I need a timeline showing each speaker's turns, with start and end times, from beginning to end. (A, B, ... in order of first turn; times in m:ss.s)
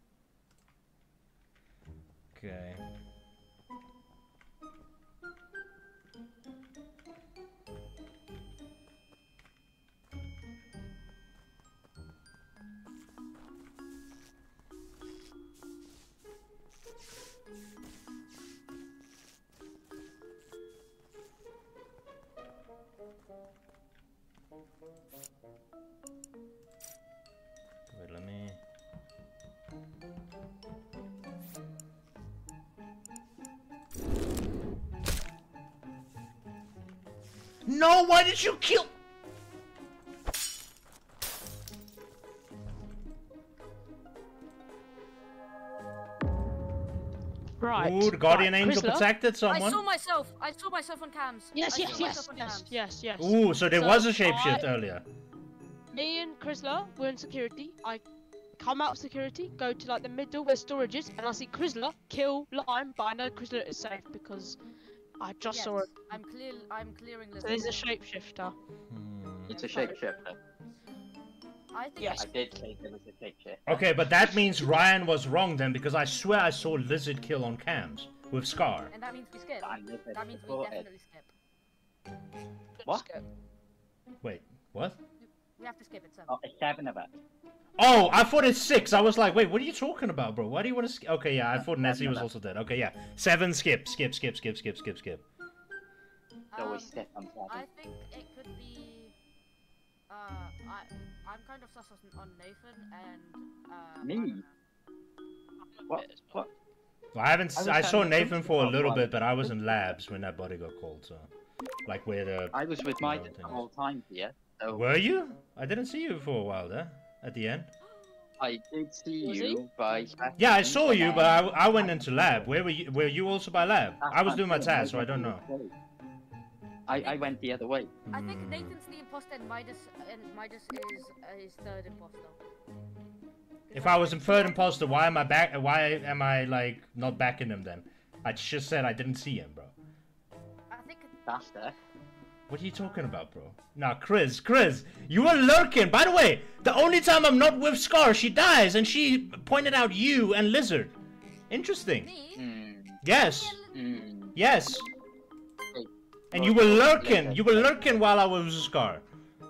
0:02.3-0:02.8 A
0:27.9-0:28.6 A
0:37.6-0:38.9 A
0:47.6-0:49.1 B
0:47.8-0:49.8 A
0:49.4-0:52.8 C
0:51.5-0:54.7 B
0:53.2-0:55.0 A
0:55.9-0:58.0 B
0:58.6-1:04.6 B
1:05.2-1:05.9 B
1:05.5-1:07.9 C
1:07.4-1:08.5 B
1:08.9-1:09.5 A
1:09.5-1:10.3 C
1:09.5-1:10.4 D
1:09.5-1:10.0 B
1:11.7-1:12.2 C
1:12.0-1:12.4 B
1:12.2-1:14.3 D
1:13.6-1:18.9 A
1:18.9-1:21.3 C
1:19.6-1:20.9 D
1:22.8-1:23.2 B
1:24.2-1:25.0 A
1:25.2-1:26.3 C
1:26.3-1:27.1 D
1:27.8-1:35.2 A
1:31.5-1:32.3 D
1:36.5-1:39.1 C
1:36.6-1:37.6 D
1:40.1-1:44.5 C
1:44.0-1:44.4 D
1:45.8-1:46.2 B
1:45.9-1:46.5 D
1:47.1-1:51.3 A
1:47.5-1:49.5 D
1:51.8-1:53.6 A
1:52.5-1:54.9 D
1:54.7-1:57.7 A
1:57.8-1:58.4 C
1:58.4-2:02.5 D
1:59.2-2:00.3 B
2:00.4-2:05.4 A
2:04.0-2:05.7 D
2:06.9-2:07.9 D
2:07.0-2:07.4 C
2:08.1-2:08.7 A
2:08.1-2:12.4 C
2:13.7-2:15.2 C
2:13.7-2:19.7 A
2:20.7-2:21.1 C
2:21.2-2:21.7 D
2:22.5-2:30.9 A
2:31.5-2:32.1 A
2:32.0-2:32.4 C
2:32.4-2:33.0 D
2:33.0-2:33.6 A
2:33.0-2:34.1 C
2:33.7-2:34.4 D
2:34.4-2:34.8 A
2:35.7-2:38.0 D
2:36.3-2:39.0 A